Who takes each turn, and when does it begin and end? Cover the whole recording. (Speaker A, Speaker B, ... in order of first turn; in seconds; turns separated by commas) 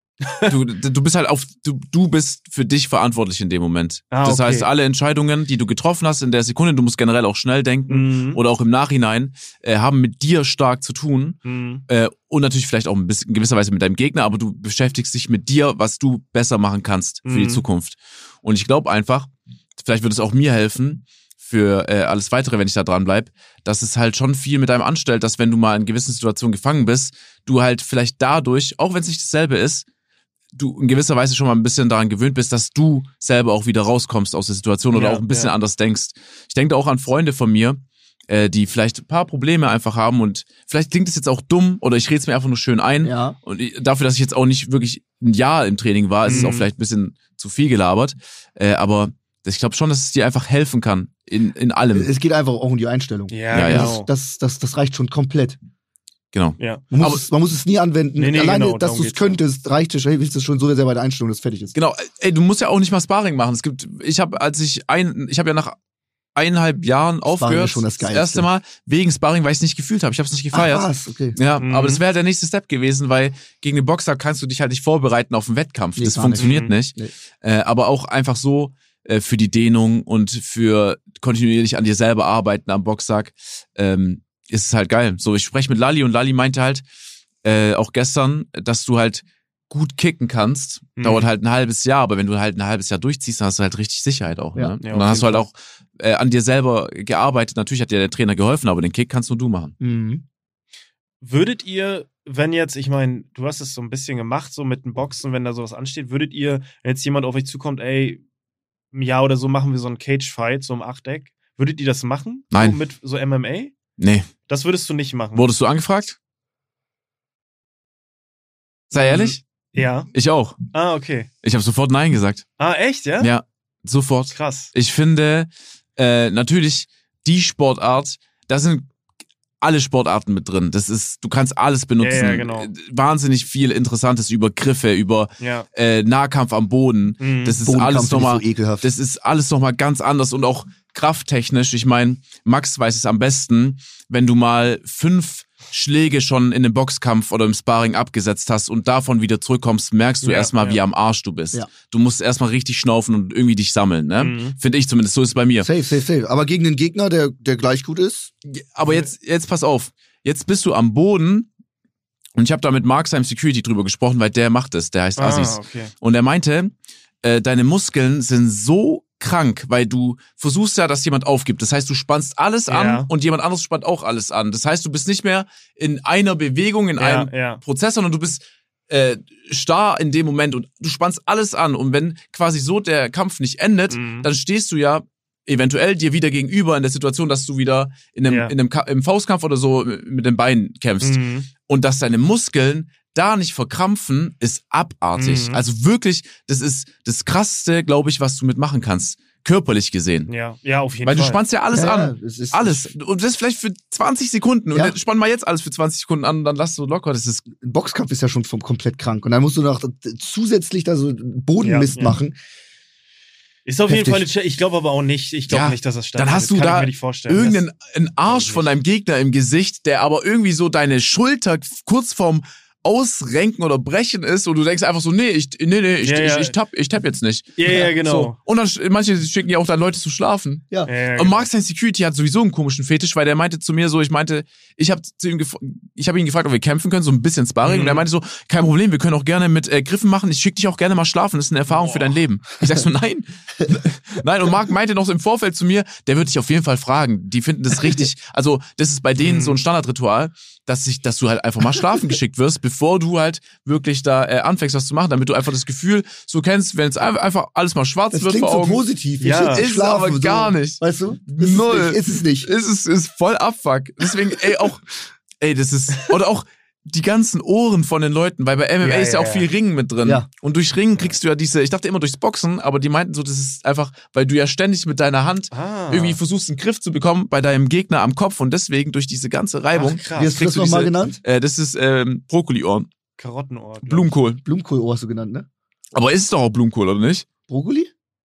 Speaker A: 0.2-0.5, Speaker B: 0.5-29.8, Speaker A: 4.1-4.7, Speaker A: 7.9-8.4, Speaker A: 11.4-11.8, Speaker A: 17.2-17.6, Speaker B: 30.5-52.1, Speaker A: 34.9-35.5, Speaker C: 43.0-43.4, Speaker A: 46.2-46.7, Speaker C: 51.9-55.6, Speaker A: 53.3-54.1, Speaker B: 53.5-53.9, Speaker B: 56.3-57.2, Speaker C: 56.9-61.7, Speaker A: 58.2-59.4, Speaker B: 61.7-65.8, Speaker B: 66.3-86.8, Speaker C: 67.3-68.5, Speaker C: 70.5-71.4, Speaker A: 71.6-72.0, Speaker C: 76.0-77.1, Speaker A: 76.4-76.7, Speaker B: 87.4-99.7, Speaker A: 91.0-91.3, Speaker A: 94.8-95.4, Speaker C: 99.8-100.2, Speaker A: 101.2-108.2, Speaker A: 108.9-113.7, Speaker B: 112.5-112.8, Speaker B: 114.0-114.3, Speaker A: 114.5-115.5, Speaker B: 115.3-116.2, Speaker B: 118.9-119.4, Speaker A: 118.9-120.1, Speaker B: 120.1-120.5, Speaker A: 120.7-121.3, Speaker B: 121.4-122.5, Speaker A: 122.6-123.3, Speaker B: 123.2-128.9, Speaker A: 124.3-124.7, Speaker B: 129.6-155.7, Speaker A: 132.0-132.7, Speaker A: 135.4-135.7, Speaker A: 137.2-137.6, Speaker C: 137.6-138.9, Speaker A: 150.2-150.8, Speaker A: 154.2-154.6, Speaker C: 155.6-158.3, Speaker B: 158.5-161.5, Speaker B: 162.3-200.3, Speaker A: 165.2-165.9, Speaker A: 172.7-173.1, Speaker A: 177.0-177.6, Speaker A: 183.9-184.3, Speaker A: 188.3-188.5, Speaker A: 191.0-191.5, Speaker A: 195.2-195.6, Speaker A: 200.3-201.4, Speaker B: 201.0-207.4, Speaker C: 201.7-202.9, Speaker C: 207.5-212.3, Speaker A: 211.6-212.1, Speaker A: 213.7-217.6, Speaker C: 213.9-214.2, Speaker B: 215.5-264.9, Speaker A: 218.3-218.7, Speaker A: 226.0-226.5, Speaker A: 227.6-228.3, Speaker A: 230.8-231.5, Speaker A: 237.6-238.0, Speaker A: 241.7-242.2, Speaker A: 249.2-249.6, Speaker C: 258.1-262.5, Speaker A: 259.2-259.6, Speaker B: 265.4-282.9, Speaker A: 268.8-269.5, Speaker A: 275.5-276.2, Speaker A: 279.7-280.4, Speaker C: 280.2-281.2, Speaker A: 283.2-284.1, Speaker B: 283.9-284.4, Speaker C: 284.4-285.5, Speaker B: 285.9-287.2, Speaker C: 287.5-287.9